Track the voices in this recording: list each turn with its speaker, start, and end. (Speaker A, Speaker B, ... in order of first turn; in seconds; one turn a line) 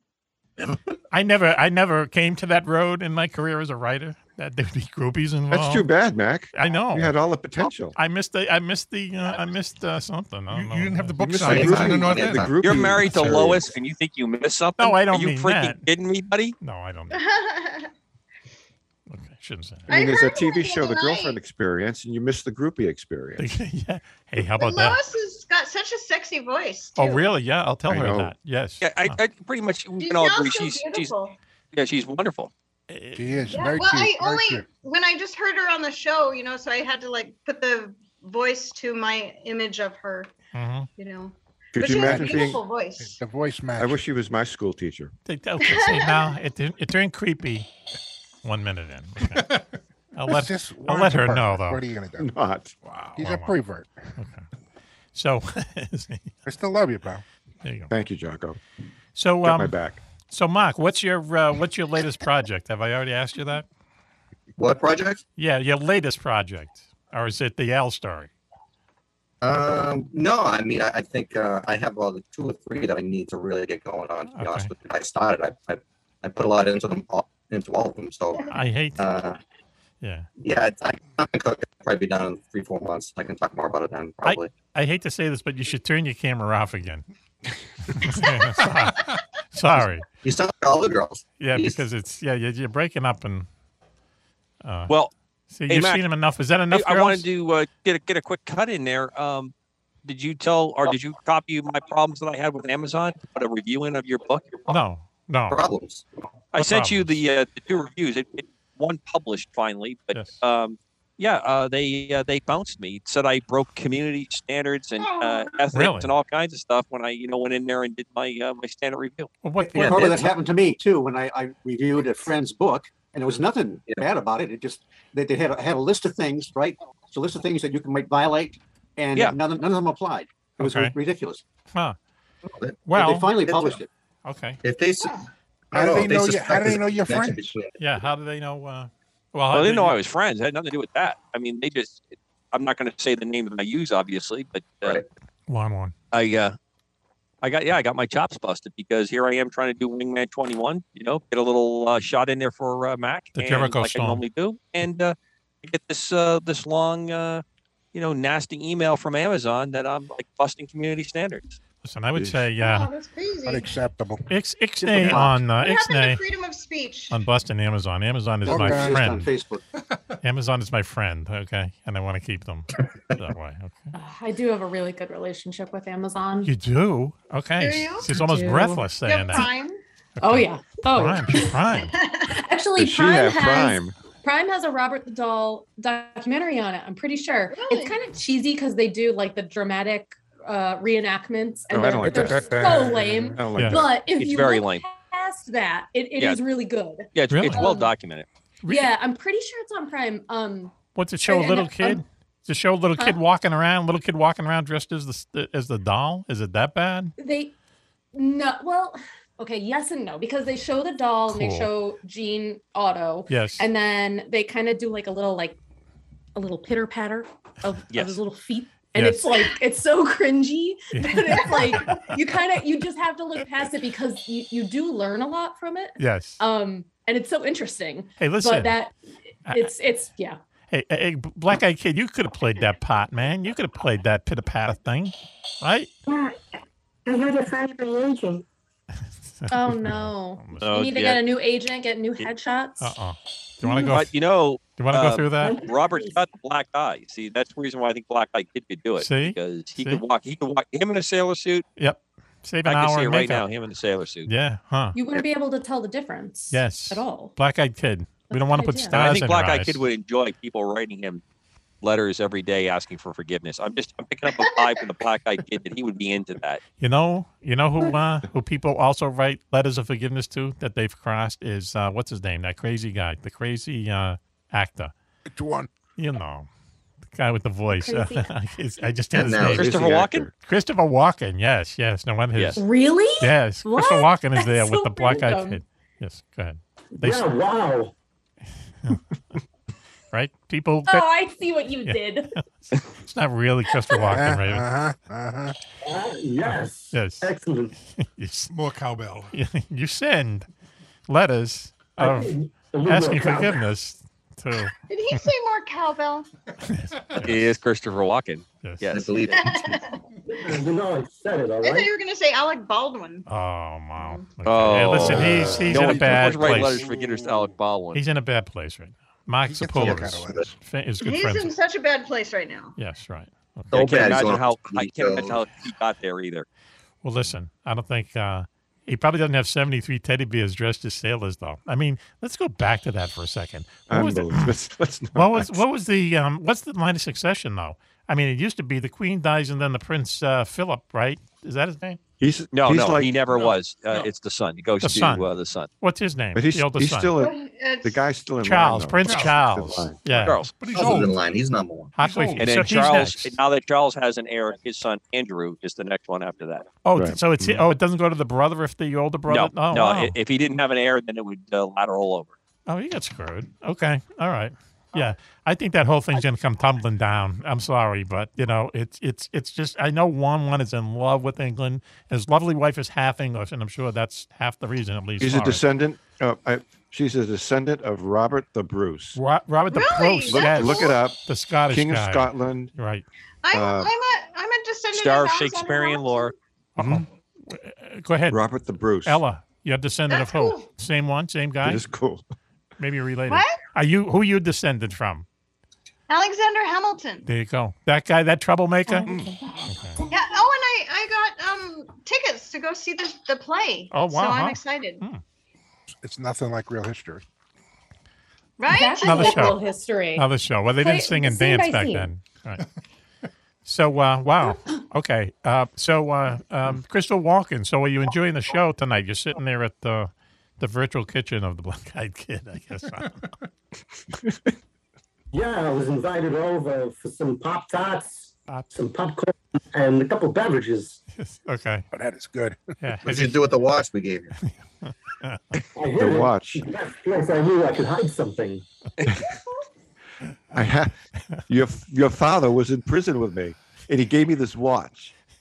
Speaker A: 1.1-5.8
Speaker B: 5.5-8.0
Speaker A: 6.5-7.1
Speaker A: 7.9-11.7
Speaker C: 10.5-12.6
Speaker B: 11.2-13.8
Speaker D: 11.4-13.5
Speaker E: 12.6-16.6
Speaker A: 14.8-15.8
Speaker A: 16.6-17.2
Speaker F: 17.1-17.9
Speaker A: 19.1-19.9
Speaker F: 19.9-21.4
Speaker B: 19.9-23.4
Speaker A: 23.4-25.0
Speaker F: 24.4-27.3
Speaker A: 27.0-29.2
Speaker B: 27.9-28.3
Speaker E: 28.8-31.1
Speaker F: 30.0-31.4
Speaker E: 31.7-32.5
Speaker A: 32.9-33.6
Speaker G: 33.1-34.7
Speaker F: 33.5-40.3
Speaker A: 40.5-40.9
Speaker F: 41.0-43.2
Speaker B: 41.7-42.6
Speaker G: 41.9-44.0
Speaker B: 43.8-45.1
Speaker A: 45.2-47.7
Speaker F: 45.6-46.4
Speaker A: 48.4-49.5
Speaker C: 49.4-49.7
Speaker A: 50.1-51.8
Speaker G: 50.3-52.3
Speaker B: 52.2-52.7
Speaker C: 52.8-53.1
Speaker G: 53.1-54.1
Speaker A: 53.2-53.6
Speaker A: 54.2-54.4
Speaker A: 55.1-56.3
Speaker G: 56.4-57.2
Speaker A: 57.6-57.9
Speaker B: 57.9-58.6
Speaker A: 59.1-59.8
Speaker B: 59.4-60.0
Speaker A: 60.3-63.7
Speaker D: 64.6-65.2
Speaker A: 65.4-68.3
Speaker D: 69.4-79.4
Speaker A: 74.3-74.7
Speaker A: 78.5-79.2
Speaker A: 80.0-80.3
Speaker D: 80.4-84.5
Speaker A: 84.2-87.0
Speaker A: 87.9-90.0
Speaker D: 90.2-91.8
Speaker A: 91.4-93.5
Speaker A: 94.6-94.9
Speaker A: 95.5-97.3
Speaker E: 95.7-96.0
Speaker E: 96.7-99.5
Speaker E: 100.0-104.7
Speaker A: 104.7-105.6
Speaker D: 105.5-106.0
Speaker E: 106.5-119.3
Speaker A: 106.5-107.2
Speaker A: 110.1-110.4
Speaker F: 115.0-115.6
Speaker A: 115.7-116.1
Speaker A: 119.4-120.3
Speaker H: 119.6-131.4
Speaker D: 119.7-120.2
Speaker A: 130.6-130.9
Speaker D: 132.4-132.9
Speaker A: 132.9-133.3
Speaker H: 132.9-133.9
Speaker D: 133.4-133.8
Speaker A: 134.2-134.6
Speaker D: 134.6-135.2
Speaker D: 135.7-137.7
Speaker G: 135.7-137.5
Speaker A: 137.8-140.0
Speaker E: 139.5-145.0
Speaker A: 145.5-145.9
Speaker E: 146.1-146.6
Speaker E: 147.4-157.4
Speaker A: 153.3-154.2
Speaker E: 157.9-161.6
Speaker A: 161.8-162.9
Speaker F: 162.6-163.7
Speaker G: 163.4-164.3
Speaker A: 164.3-166.2
Speaker H: 164.8-165.3
Speaker F: 165.1-167.2
Speaker A: 167.1-169.3
Speaker H: 168.4-169.6
Speaker G: 168.5-169.0
Speaker A: 170.2-173.9
Speaker I: 173.9-176.5
Speaker A: 176.4-179.5
Speaker F: 177.6-178.1
Speaker I: 178.1-178.8
Speaker F: 179.0-179.8
Speaker A: 180.2-181.9
Speaker I: 180.2-181.5
Speaker F: 181.9-182.3
Speaker I: 182.3-197.9
Speaker B: 182.8-183.9
Speaker F: 187.5-188.0
Speaker B: 191.7-193.9
Speaker G: 192.0-193.4
Speaker A: 193.5-193.9
Speaker E: 194.2-194.8
Speaker E: 197.1-198.3
Speaker A: 197.3-197.7
Speaker A: 198.6-198.9
Speaker I: 198.7-202.0
Speaker A: 200.9-207.1
Speaker I: 207.2-207.5
Speaker I: 208.1-215.6
Speaker A: 211.3-211.7
Speaker A: 213.3-213.6
Speaker I: 216.3-228.9
Speaker E: 217.9-218.2
Speaker A: 218.9-219.3
Speaker A: 220.9-222.1
Speaker A: 226.0-226.4
Speaker A: 228.2-228.8
Speaker I: 229.5-230.4
Speaker A: 230.7-235.9
Speaker J: 236.1-236.4
Speaker J: 237.1-238.4
Speaker A: 239.4-240.7
Speaker I: 239.5-242.9
Speaker E: 240.6-241.2
Speaker A: 242.8-244.1
Speaker E: 243.8-251.6
Speaker A: 244.8-245.6
Speaker J: 245.4-246.2
Speaker A: 249.0-250.0
Speaker A: 251.8-253.4
Speaker E: 252.7-254.3
Speaker A: 254.2-255.0
Speaker I: 254.9-257.3
Speaker A: 256.5-259.8
Speaker I: 258.3-258.9
Speaker E: 258.9-261.2
Speaker E: 261.8-266.6
Speaker F: 264.4-264.7
Speaker A: 266.8-274.9
Speaker G: 275.3-275.7
Speaker A: 275.9-276.5
Speaker A: 277.1-279.7
Speaker I: 277.7-278.3
Speaker D: 279.1-280.3
Speaker E: 279.4-280.3
Speaker A: 280.4-282.6
Speaker I: 282.6-285.6
Speaker A: 283.2-287.3
Speaker K: 287.0-287.9
Speaker A: 290.1-291.1
Speaker I: 290.9-292.3
Speaker A: 291.8-294.7
Speaker G: 294.1-295.5
Speaker K: 295.8-297.7
Speaker A: 296.9-297.3
Speaker A: 298.0-298.5
Speaker C: 298.5-299.3
Speaker A: 299.3-300.5
Speaker A: 301.1-302.3
Speaker K: 302.0-303.6
Speaker A: 302.9-305.2
Speaker F: 304.9-306.2
Speaker A: 306.6-307.5
Speaker E: 307.2-309.1
Speaker A: 308.6-309.1
Speaker D: 308.9-309.8
Speaker F: 309.3-310.0
Speaker K: 310.4-311.9
Speaker F: 311.6-313.3
Speaker A: 313.3-316.9
Speaker F: 313.9-314.2
Speaker E: 314.4-318.0
Speaker G: 315.0-317.2
Speaker A: 317.9-321.5
Speaker G: 319.5-320.6
Speaker D: 319.8-320.5
Speaker F: 321.0-322.7
Speaker A: 322.8-324.2
Speaker D: 323.7-325.4
Speaker E: 323.7-326.4
Speaker A: 327.0-334.5
Speaker B: 333.9-335.6
Speaker A: 335.1-342.0
Speaker B: 342.2-343.2
Speaker E: 342.5-345.7
Speaker A: 344.8-345.3
Speaker A: 345.8-347.1
Speaker B: 346.3-350.3
Speaker F: 347.2-348.1
Speaker A: 348.4-350.5
Speaker C: 349.0-349.4
Speaker C: 350.5-351.2
Speaker D: 350.7-351.9
Speaker A: 351.9-353.4
Speaker E: 352.4-356.7
Speaker A: 356.8-360.1
Speaker B: 356.9-357.6
Speaker E: 359.3-362.3
Speaker A: 362.7-375.6
Speaker B: 375.2-379.2
Speaker A: 379.1-383.0
Speaker F: 379.7-381.0
Speaker B: 380.2-382.7
Speaker F: 383.4-386.3
Speaker B: 383.5-383.9
Speaker E: 384.9-386.3
Speaker A: 386.8-388.4
Speaker B: 386.8-387.0
Speaker B: 388.3-389.2
Speaker A: 389.1-391.8
Speaker F: 390.1-390.7
Speaker B: 391.6-392.2
Speaker A: 392.8-395.2
Speaker F: 393.3-393.6
Speaker F: 396.1-397.3
Speaker A: 397.2-399.1
Speaker I: 398.9-400.1
Speaker A: 399.7-400.0
Speaker F: 400.1-405.0
Speaker A: 403.9-405.2
Speaker G: 406.0-407.2
Speaker F: 408.6-409.6
Speaker I: 408.7-410.3
Speaker A: 409.0-409.6
Speaker A: 410.1-412.6
Speaker I: 410.8-412.1
Speaker A: 413.6-423.2
Speaker K: 425.3-431.0
Speaker A: 431.2-431.9
Speaker G: 431.9-432.6
Speaker A: 432.8-433.4
Speaker D: 433.0-434.3
Speaker A: 434.4-435.6
Speaker K: 435.7-438.6
Speaker B: 435.9-436.7
Speaker B: 440.5-440.9
Speaker B: 441.5-445.1